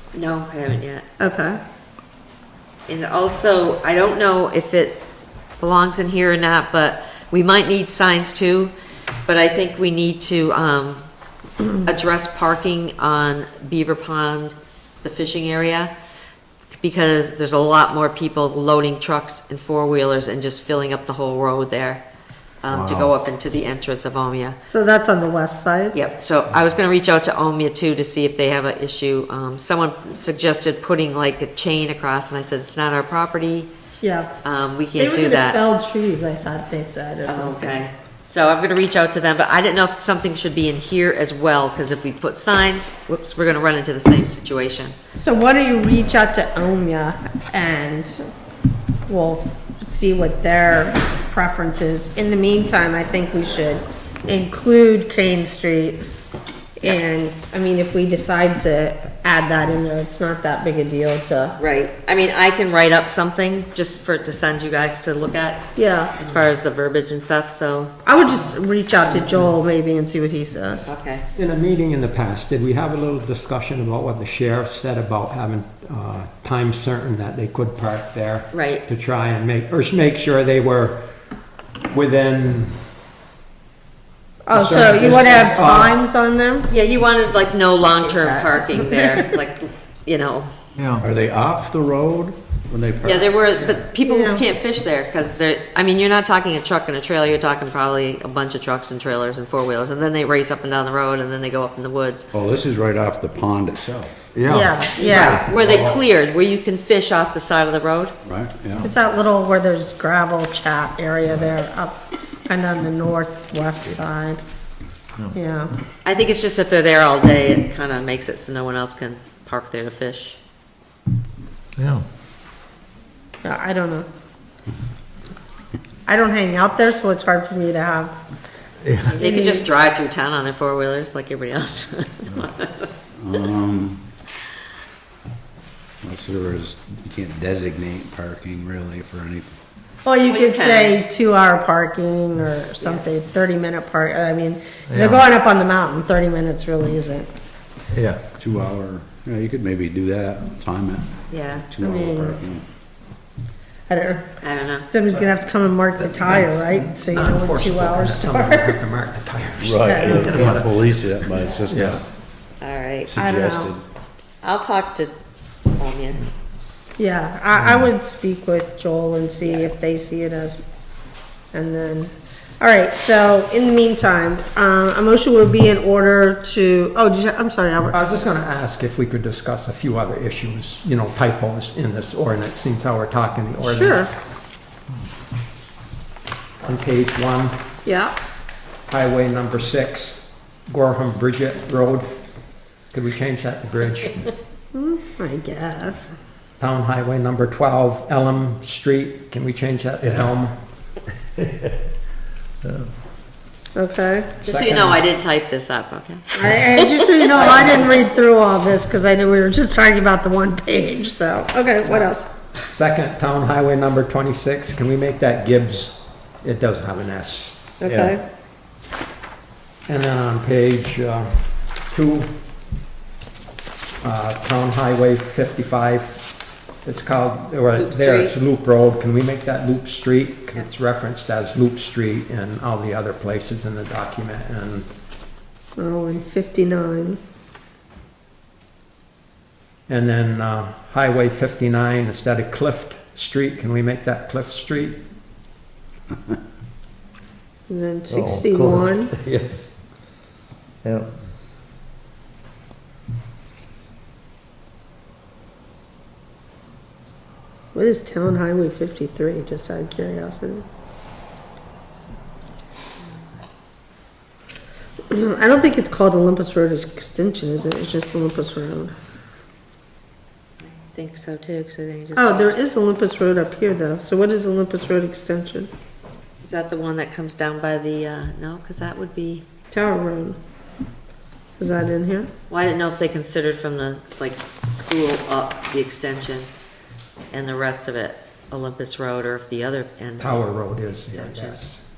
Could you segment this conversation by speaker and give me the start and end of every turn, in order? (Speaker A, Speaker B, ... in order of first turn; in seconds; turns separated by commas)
Speaker A: 0.1-1.0, Speaker B: 1.2-1.6, Speaker A: 2.9-5.0, Speaker A: 5.6-8.7, Speaker A: 9.2-11.0, Speaker A: 11.7-15.9, Speaker A: 16.8-22.0, Speaker A: 22.6-24.6, Speaker C: 22.7-23.1, Speaker B: 24.7-25.9, Speaker A: 25.9-33.7, Speaker B: 34.0-34.3, Speaker A: 34.4-35.7, Speaker B: 35.0-37.8, Speaker A: 37.3-45.0, Speaker B: 45.1-48.2, Speaker B: 49.1-56.0, Speaker B: 56.8-61.6, Speaker A: 61.6-67.9, Speaker B: 65.7-66.1, Speaker B: 68.0-70.9, Speaker D: 69.1-69.5, Speaker A: 70.8-71.2, Speaker D: 71.3-81.0, Speaker A: 78.5-78.8, Speaker D: 81.9-82.8, Speaker B: 84.5-86.7, Speaker D: 84.5-85.9, Speaker A: 86.7-90.5, Speaker B: 88.0-89.3, Speaker E: 90.8-91.0, Speaker C: 91.0-93.3, Speaker A: 93.0-102.3, Speaker B: 94.0-94.4, Speaker C: 102.3-104.7, Speaker B: 104.5-105.5, Speaker A: 105.0-108.1, Speaker C: 105.2-106.0, Speaker C: 108.2-108.9, Speaker B: 108.8-114.4, Speaker B: 115.3-115.7, Speaker A: 116.0-120.4, Speaker E: 121.8-122.0, Speaker B: 123.4-124.0, Speaker B: 126.0-128.1, Speaker B: 129.0-129.7, Speaker A: 129.1-132.9, Speaker C: 133.2-134.0, Speaker C: 136.0-139.5, Speaker B: 140.0-147.3, Speaker A: 140.3-141.0, Speaker A: 142.8-143.0, Speaker E: 144.9-145.2, Speaker E: 147.9-148.3, Speaker C: 148.3-151.1, Speaker A: 151.3-151.7, Speaker C: 151.7-152.6, Speaker B: 151.8-152.4, Speaker B: 153.9-154.3, Speaker A: 154.4-154.9, Speaker B: 154.9-159.0, Speaker D: 156.2-160.8, Speaker C: 159.6-162.0, Speaker B: 159.8-160.4, Speaker D: 161.7-162.0, Speaker A: 162.6-163.1, Speaker C: 163.1-163.8, Speaker B: 163.2-163.7, Speaker A: 164.4-165.1, Speaker A: 165.8-166.3, Speaker B: 167.0-170.6, Speaker A: 169.4-169.7, Speaker B: 171.5-178.0, Speaker D: 177.9-184.1, Speaker B: 183.6-184.1, Speaker D: 186.6-187.5, Speaker B: 187.8-188.1, Speaker D: 188.9-192.1, Speaker D: 192.9-194.3, Speaker B: 194.7-196.1, Speaker D: 196.6-200.5, Speaker B: 203.8-204.3, Speaker D: 204.4-205.0, Speaker A: 204.4-207.9, Speaker B: 206.3-212.3, Speaker D: 212.7-217.8, Speaker B: 217.8-218.2, Speaker D: 219.9-222.3, Speaker D: 224.0-226.3, Speaker D: 226.8-234.9, Speaker A: 227.8-228.3, Speaker B: 235.8-237.2, Speaker D: 239.9-245.0, Speaker B: 247.7-249.1, Speaker E: 248.1-249.4, Speaker E: 250.8-251.1, Speaker B: 257.7-260.6, Speaker A: 263.0-263.3, Speaker B: 265.1-268.9, Speaker A: 270.6-272.6, Speaker B: 272.1-275.7, Speaker A: 276.4-279.4, Speaker B: 279.7-280.4, Speaker B: 281.6-282.3, Speaker A: 282.5-286.5, Speaker A: 287.3-291.6, Speaker D: 290.2-291.8